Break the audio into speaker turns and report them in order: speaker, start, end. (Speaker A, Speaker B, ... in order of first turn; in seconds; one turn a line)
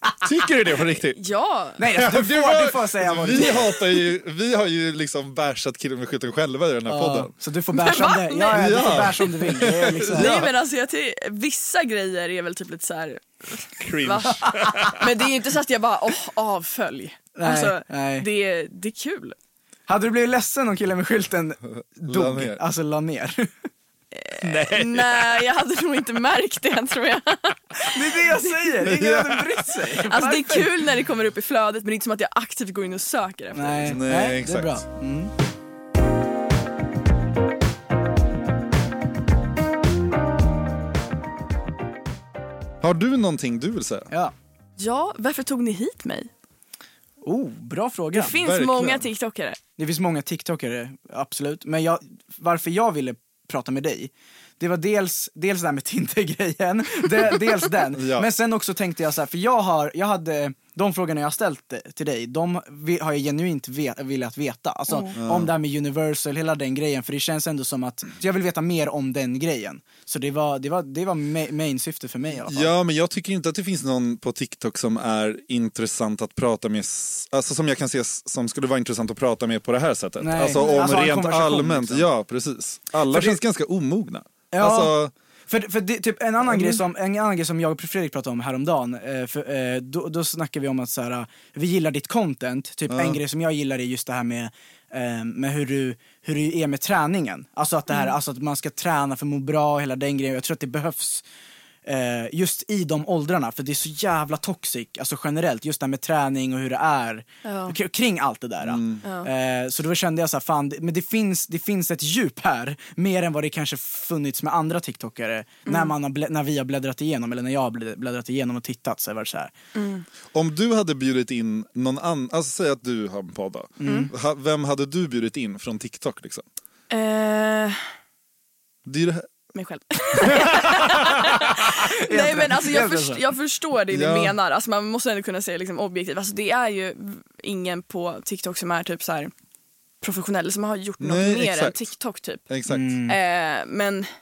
Speaker A: 0.2-1.2
Speaker B: 1.1-1.8
Speaker C: 1.8-3.7
Speaker A: 1.9-7.3
Speaker C: 6.9-10.4
Speaker B: 7.7-8.9
Speaker A: 8.5-10.5
Speaker B: 10.1-19.4
Speaker A: 13.8-15.0
Speaker C: 17.3-18.3
Speaker C: 19.9-23.5
Speaker A: 21.8-22.6
Speaker B: 24.1-28.7
Speaker A: 24.4-25.4
Speaker C: 27.9-30.7
Speaker A: 28.8-29.7
Speaker B: 30.1-34.0
Speaker C: 33.5-35.3
Speaker A: 33.9-34.8
Speaker A: 42.8-44.1
Speaker B: 44.8-46.3
Speaker C: 47.2-48.4
Speaker B: 48.1-49.6
Speaker A: 48.4-49.0
Speaker C: 49.8-72.7
Speaker A: 57.9-58.3
Speaker A: 65.2-65.5
Speaker A: 72.5-85.1
Speaker C: 80.2-82.1
Speaker B: 80.5-80.9
Speaker C: 83.1-83.4
Speaker C: 84.5-85.0
Speaker C: 85.5-101.2
Speaker A: 86.4-86.8
Speaker A: 92.9-93.2
Speaker C: 101.8-119.5
Speaker B: 107.4-107.8
Speaker A: 108.6-109.0
Speaker B: 109.0-109.3
Speaker B: 115.7-115.9
Speaker B: 119.7-120.0
Speaker A: 120.3-126.4
Speaker C: 123.8-124.1
Speaker B: 123.8-124.1
Speaker B: 126.9-127.8
Speaker A: 128.8-129.2
Speaker B: 129.5-139.3
Speaker C: 132.0-133.2
Speaker A: 133.9-134.3
Speaker B: 140.0-142.4
Speaker A: 141.0-141.8
Speaker A: 142.5-143.0
Speaker C: 142.7-143.2
Speaker B: 143.1-144.1